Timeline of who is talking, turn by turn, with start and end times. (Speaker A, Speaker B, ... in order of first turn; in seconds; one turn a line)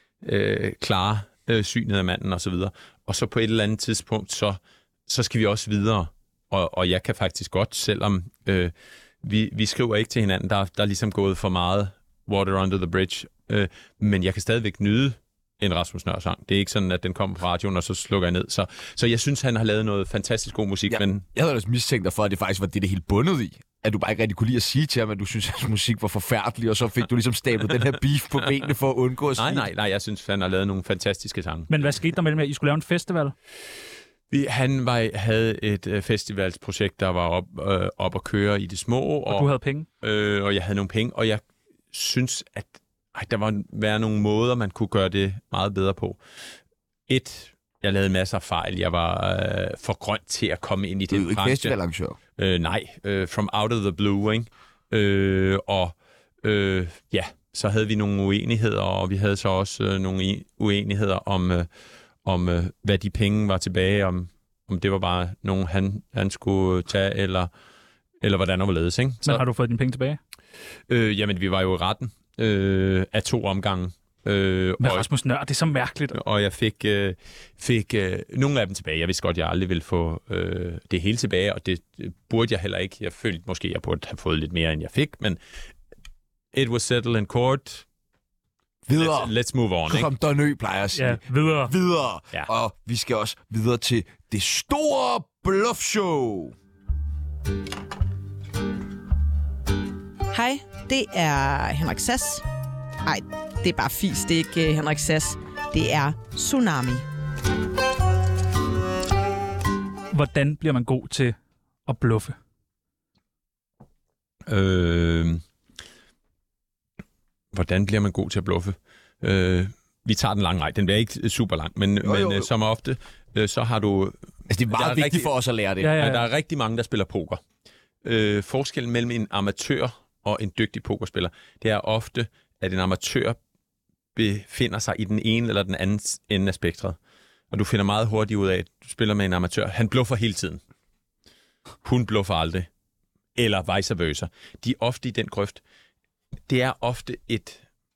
Speaker A: 0.2-21.2
Speaker B: 20.9-29.7
Speaker A: 29.4-31.9
Speaker C: 31.7-33.4
Speaker A: 34.3-46.2
Speaker C: 39.3-39.9
Speaker A: 47.1-51.8
Speaker B: 51.1-52.2
Speaker A: 52.4-61.7
Speaker A: 62.2-67.5
Speaker A: 68.2-69.4
Speaker C: 69.2-70.2
Speaker A: 70.9-75.1
Speaker C: 74.8-76.2
Speaker A: 76.1-85.4
Speaker A: 86.5-87.8
Speaker B: 88.9-89.3
Speaker A: 89.0-90.1
Speaker B: 89.9-96.5
Speaker C: 91.0-91.7
Speaker D: 100.3-102.5
Speaker D: 103.0-107.1
Speaker C: 110.1-112.4
Speaker A: 114.5-115.4
Speaker A: 117.5-124.2
Speaker B: 122.0-122.5
Speaker B: 124.5-125.9
Speaker A: 124.7-125.3
Speaker C: 125.8-126.3
Speaker A: 126.0-127.4
Speaker A: 128.0-133.4
Speaker A: 134.2-137.0
Speaker A: 137.5-140.6
Speaker A: 141.8-142.7
Speaker A: 143.3-145.6
Speaker A: 146.5-147.6